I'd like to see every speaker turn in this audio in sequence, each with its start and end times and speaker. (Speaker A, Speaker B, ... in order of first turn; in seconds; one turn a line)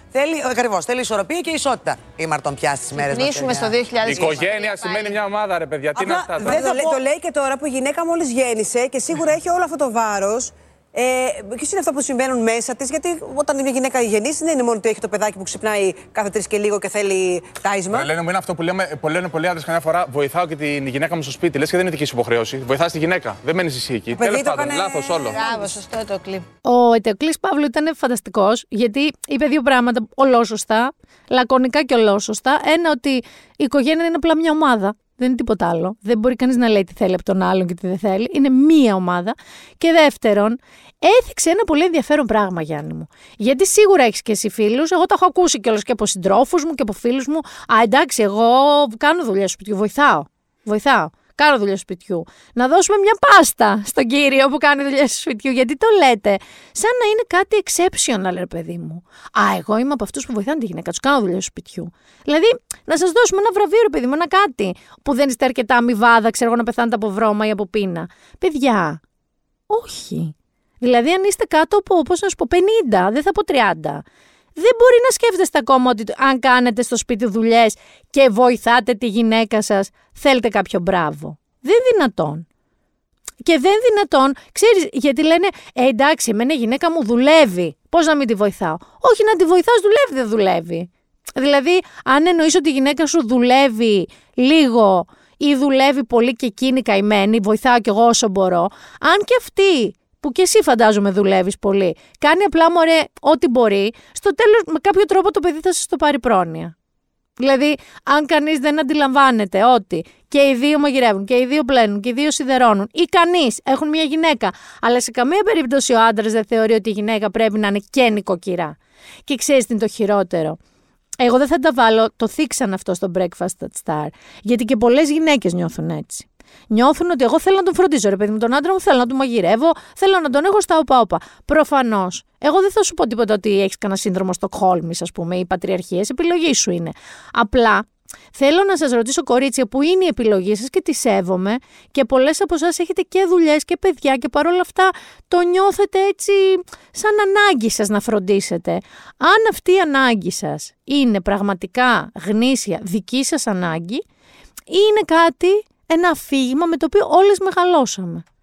Speaker A: 0.1-3.7
Speaker B: 3.0-5.2
Speaker C: 4.0-6.6
Speaker A: 5.9-7.0
Speaker D: 6.5-18.1
Speaker C: 18.0-25.4
Speaker B: 24.4-26.4
Speaker E: 26.6-69.0
Speaker E: 69.7-74.0
Speaker E: 74.6-82.5
Speaker E: 83.4-106.7
Speaker E: 107.4-118.8
Speaker E: 119.3-120.6
Speaker E: 121.2-154.0
Speaker E: 154.7-158.2